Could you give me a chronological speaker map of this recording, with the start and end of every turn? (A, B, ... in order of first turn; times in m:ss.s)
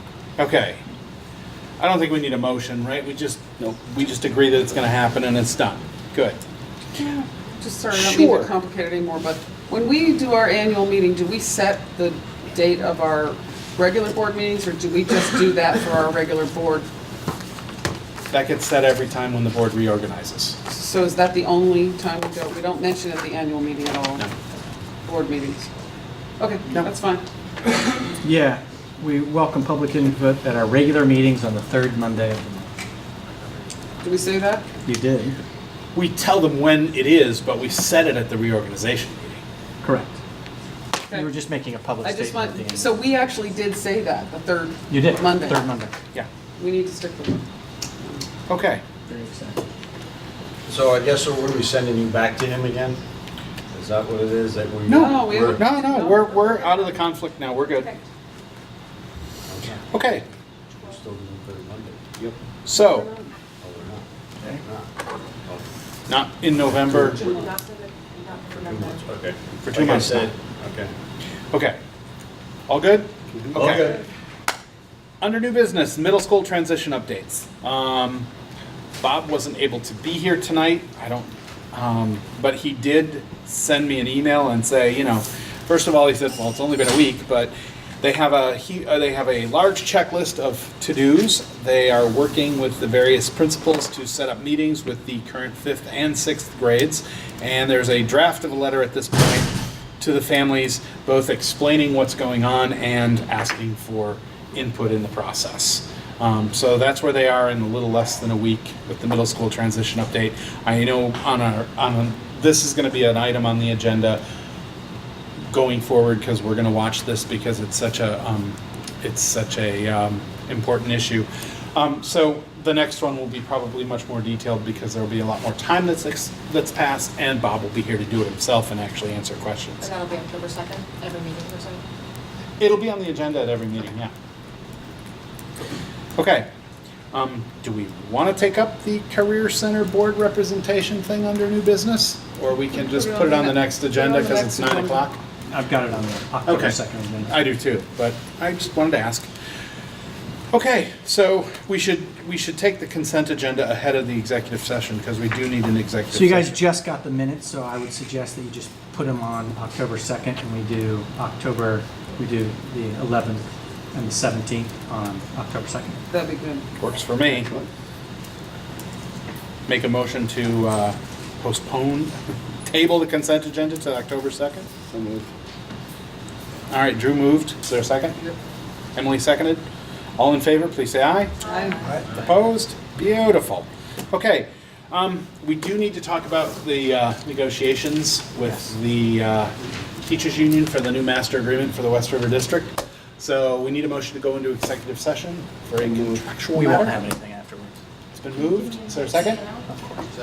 0:00.4-0:00.8 A
0:01.8-0:06.4 A
0:07.0-0:16.9 B
0:07.9-0:08.5 A
0:18.3-0:20.6 A
0:20.7-0:24.3 B
0:25.0-0:25.7 B
0:26.4-0:27.2 B
0:28.2-0:32.7 C
0:34.0-0:34.6 B
0:34.8-0:35.4 C
0:35.9-0:39.4 A
0:39.8-0:40.2 C
0:41.1-0:42.9 C
0:42.0-0:45.6 B
0:44.9-0:45.9 C
0:46.6-0:47.4 B
0:48.5-0:48.8 A
0:49.1-0:49.6 C
0:50.7-0:53.0 D
0:53.7-0:55.6 D
0:54.9-0:56.4 B
0:54.9-0:57.9 A
0:57.8-0:58.0 B
0:59.5-0:59.8 D
0:59.9-1:00.2 A
1:00.8-1:02.3 D
1:02.6-1:03.1 A
1:02.9-1:03.3 B
1:03.6-1:04.0 D
1:04.6-1:04.9 D
1:06.1-1:07.2 A
1:06.9-1:09.2 E
1:07.2-1:07.5 B
1:08.5-1:10.9 D
1:09.6-1:10.3 A
1:12.7-1:14.0 A
1:13.3-1:14.0 D
1:15.2-1:18.3 A
1:19.0-1:54.2 A
1:55.5-2:09.9 A
2:09.8-2:11.8 E
2:12.6-2:14.1 A
2:16.2-2:16.5 A
2:17.1-2:25.1 A
2:22.7-2:25.1 B
2:25.5-2:27.4 C
2:26.4-2:29.3 A
2:30.5-2:36.6 A
2:36.1-2:46.0 C
2:46.1-2:46.6 B
2:46.8-2:47.5 A
2:47.4-2:47.7 D
2:49.7-2:52.1 A
2:52.7-2:54.7 A
2:54.9-2:55.2 D
2:56.7-2:58.2 A
2:59.0-2:59.6 A
3:00.2-3:01.3 A
3:01.4-3:01.9 B
3:01.4-3:02.0 E
3:02.1-3:17.0 A
3:08.4-3:08.7 C
3:16.5-3:17.8 C
3:18.1-3:19.4 A
3:18.6-3:19.7 E